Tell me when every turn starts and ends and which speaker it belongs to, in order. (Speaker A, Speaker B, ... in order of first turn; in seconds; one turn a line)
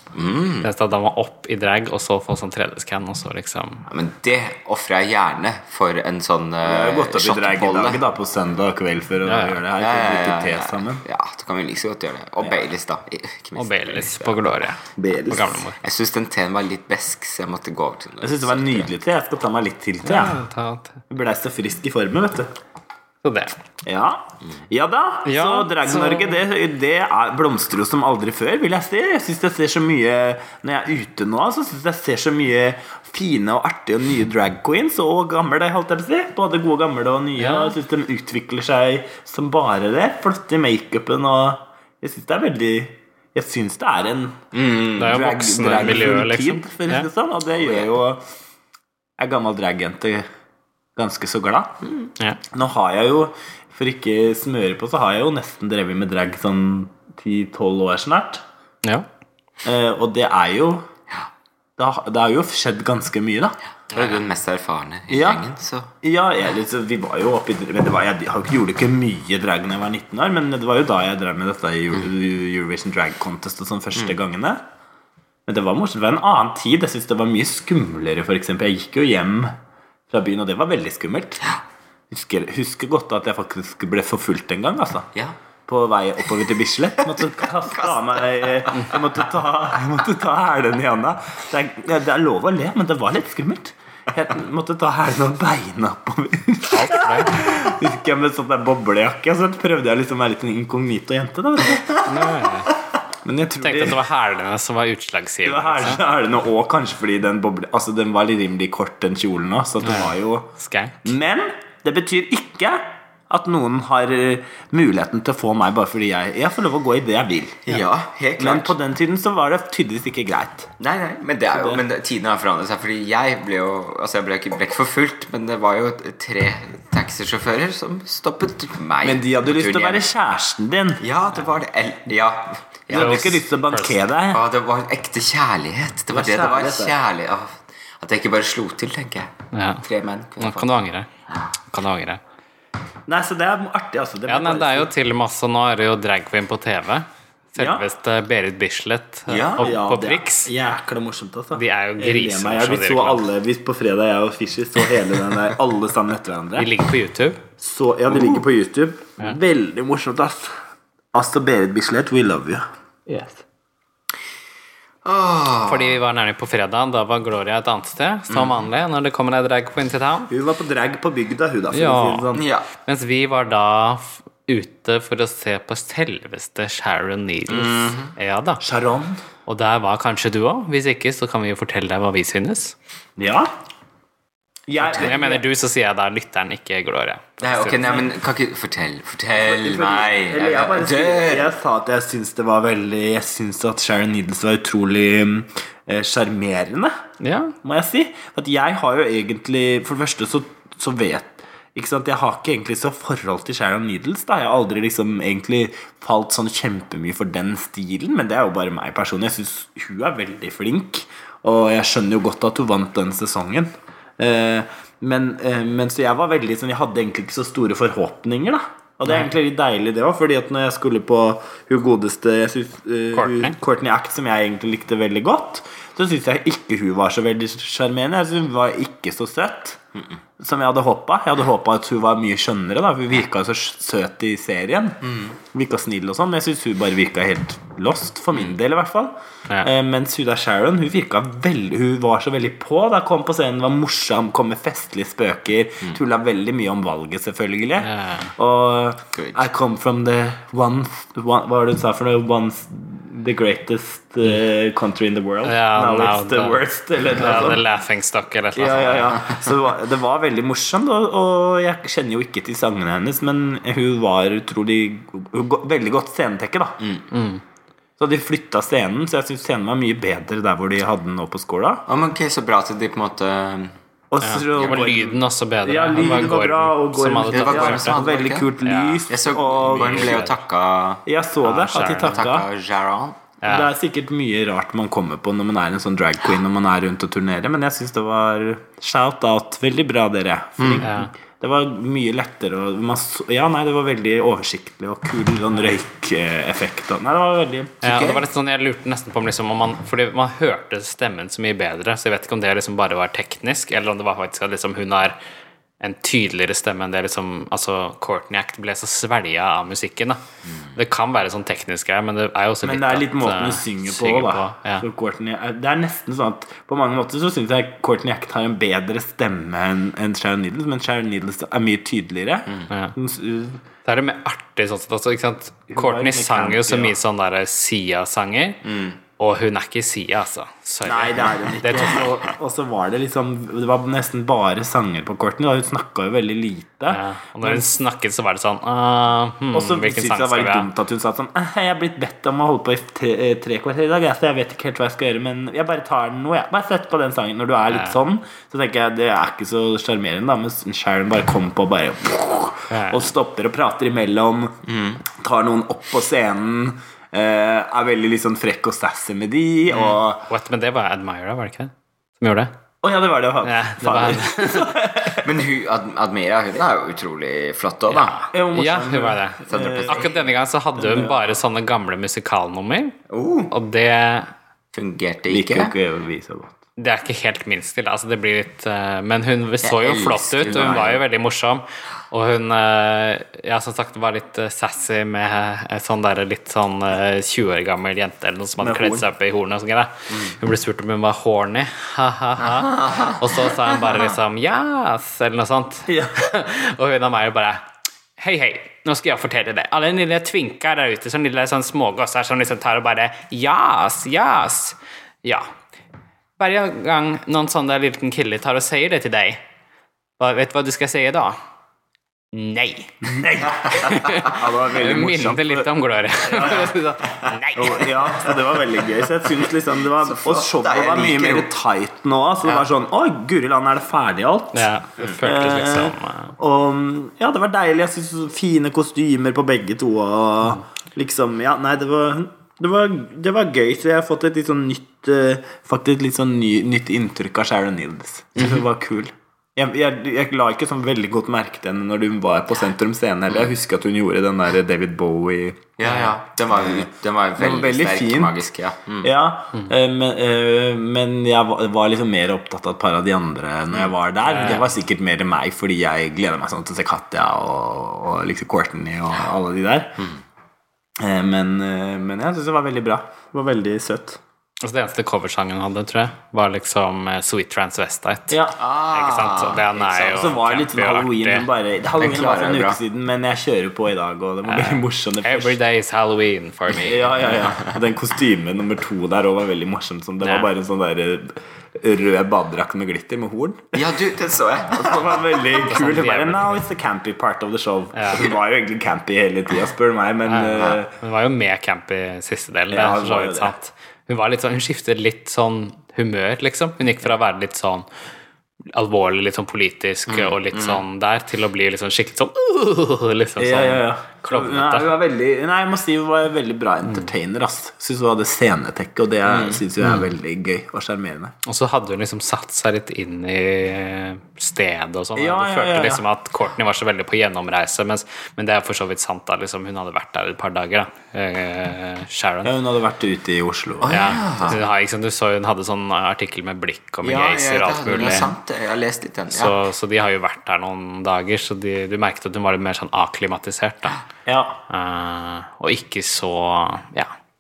Speaker A: 0.1-0.7
Speaker B: 0.6-3.9
Speaker A: 3.9-8.0
Speaker C: 6.6-11.0
Speaker B: 9.2-9.6
Speaker A: 9.8-14.4
Speaker B: 13.6-15.8
Speaker C: 14.9-15.6
Speaker A: 15.8-18.9
Speaker C: 18.2-20.4
Speaker B: 20.0-21.0
Speaker C: 21.1-22.5
Speaker B: 23.2-23.5
Speaker C: 23.9-48.2
Speaker B: 25.2-26.4
Speaker B: 37.4-37.8
Speaker A: 44.5-45.1
Speaker B: 45.0-47.1
Speaker A: 47.6-47.9
Speaker C: 49.2-50.2
Speaker C: 51.0-51.8
Speaker C: 52.5-58.4
Speaker C: 59.6-60.9
Speaker C: 61.8-63.5
Speaker A: 63.9-65.9
Speaker B: 63.9-64.2
Speaker C: 65.1-65.4
Speaker C: 66.0-74.6
Speaker C: 75.5-79.5
Speaker C: 80.1-81.4
Speaker C: 82.1-85.1
Speaker C: 85.7-102.0
Speaker A: 87.7-89.0
Speaker B: 96.7-97.5
Speaker B: 102.0-102.7
Speaker C: 103.2-104.0
Speaker B: 103.6-106.0
Speaker C: 105.4-110.5
Speaker B: 109.8-111.1
Speaker C: 111.0-117.8
Speaker A: 117.7-118.7
Speaker C: 118.4-120.7
Speaker A: 120.8-130.1
Speaker C: 121.5-121.8
Speaker C: 129.0-131.0
Speaker A: 131.0-133.3
Speaker C: 132.9-134.5
Speaker B: 132.9-134.0
Speaker A: 134.3-140.7
Speaker C: 136.1-137.0
Speaker B: 139.5-139.8
Speaker B: 140.4-141.1
Speaker B: 141.7-142.2
Speaker C: 143.1-144.9
Speaker B: 144.3-150.5
Speaker C: 147.6-147.8
Speaker C: 149.3-156.7
Speaker B: 151.6-153.2
Speaker B: 156.6-157.4
Speaker C: 157.6-160.5
Speaker A: 158.1-158.4
Speaker C: 161.1-163.4
Speaker A: 165.1-166.0
Speaker B: 165.7-170.3
Speaker A: 168.3-168.7
Speaker C: 170.3-172.4
Speaker B: 171.7-172.3
Speaker A: 172.3-172.7
Speaker B: 172.8-178.6
Speaker A: 177.5-178.1
Speaker C: 178.6-179.2
Speaker B: 179.5-182.7
Speaker C: 183.2-183.5
Speaker C: 184.7-185.4
Speaker B: 184.8-187.9
Speaker A: 187.4-191.5
Speaker C: 189.3-196.9
Speaker B: 197.2-197.6
Speaker C: 197.6-229.8
Speaker B: 219.1-219.3
Speaker B: 223.1-223.6
Speaker C: 230.4-235.0
Speaker A: 235.1-235.3
Speaker C: 235.5-257.6
Speaker B: 247.8-248.3
Speaker A: 249.1-249.4
Speaker B: 255.4-259.4
Speaker C: 258.6-266.8
Speaker B: 267.1-267.4
Speaker C: 268.0-271.9
Speaker A: 271.9-273.7
Speaker C: 274.1-280.3
Speaker B: 274.2-278.1
Speaker A: 274.6-275.0
Speaker A: 277.3-278.5
Speaker B: 278.6-279.1
Speaker A: 279.1-281.1
Speaker B: 279.7-280.4
Speaker C: 281.1-282.5
Speaker B: 281.4-282.2
Speaker A: 281.9-283.2
Speaker B: 283.4-283.7
Speaker C: 283.4-297.8
Speaker A: 290.6-290.9
Speaker B: 290.8-291.1
Speaker B: 297.8-305.2
Speaker A: 297.8-298.2
Speaker B: 305.8-310.2
Speaker B: 310.7-314.8
Speaker C: 312.6-323.6
Speaker B: 322.7-322.9
Speaker B: 323.9-328.6
Speaker C: 325.7-327.0
Speaker A: 328.6-329.0
Speaker B: 329.2-332.1
Speaker C: 330.9-337.6
Speaker B: 336.9-340.7
Speaker C: 339.5-360.3
Speaker B: 347.7-348.0
Speaker B: 352.7-353.1
Speaker A: 354.7-355.0
Speaker B: 360.2-362.5
Speaker C: 362.8-365.3
Speaker B: 363.4-364.8
Speaker A: 365.1-368.2
Speaker B: 367.9-373.0
Speaker C: 368.3-370.1
Speaker A: 369.5-370.2
Speaker C: 370.8-371.2
Speaker A: 373.1-373.5
Speaker B: 373.5-374.3
Speaker A: 374.7-375.7
Speaker C: 375.3-376.6
Speaker B: 376.8-397.6
Speaker A: 379.6-381.0
Speaker C: 388.6-389.1
Speaker A: 392.8-393.1
Speaker C: 395.9-396.2
Speaker B: 398.2-405.5
Speaker B: 406.4-409.4
Speaker B: 410.2-411.4
Speaker B: 412.3-417.9
Speaker C: 413.0-416.8
Speaker C: 417.6-424.7
Speaker A: 419.9-421.5
Speaker B: 424.5-426.4
Speaker C: 425.2-445.9
Speaker A: 438.4-438.6
Speaker A: 445.8-449.1
Speaker C: 446.5-448.4
Speaker C: 449.0-460.0
Speaker B: 454.2-454.6
Speaker C: 461.0-464.2
Speaker B: 464.6-471.5
Speaker C: 468.3-468.6
Speaker A: 468.6-470.3
Speaker C: 470.1-475.6
Speaker A: 472.0-472.8
Speaker B: 474.5-477.4
Speaker C: 476.7-484.0
Speaker B: 480.2-480.5
Speaker A: 483.7-485.4
Speaker C: 484.7-490.9
Speaker B: 485.6-486.6
Speaker B: 487.9-488.3
Speaker B: 490.2-497.9
Speaker C: 492.7-493.5
Speaker B: 498.7-504.9
Speaker A: 500.1-500.8
Speaker C: 503.4-511.4
Speaker A: 509.2-509.6
Speaker B: 511.4-522.5
Speaker C: 515.1-516.0
Speaker C: 522.4-524.6
Speaker A: 523.8-524.6
Speaker B: 523.9-528.3
Speaker A: 527.0-529.6
Speaker B: 529.3-534.0
Speaker C: 534.2-534.6
Speaker B: 534.7-537.1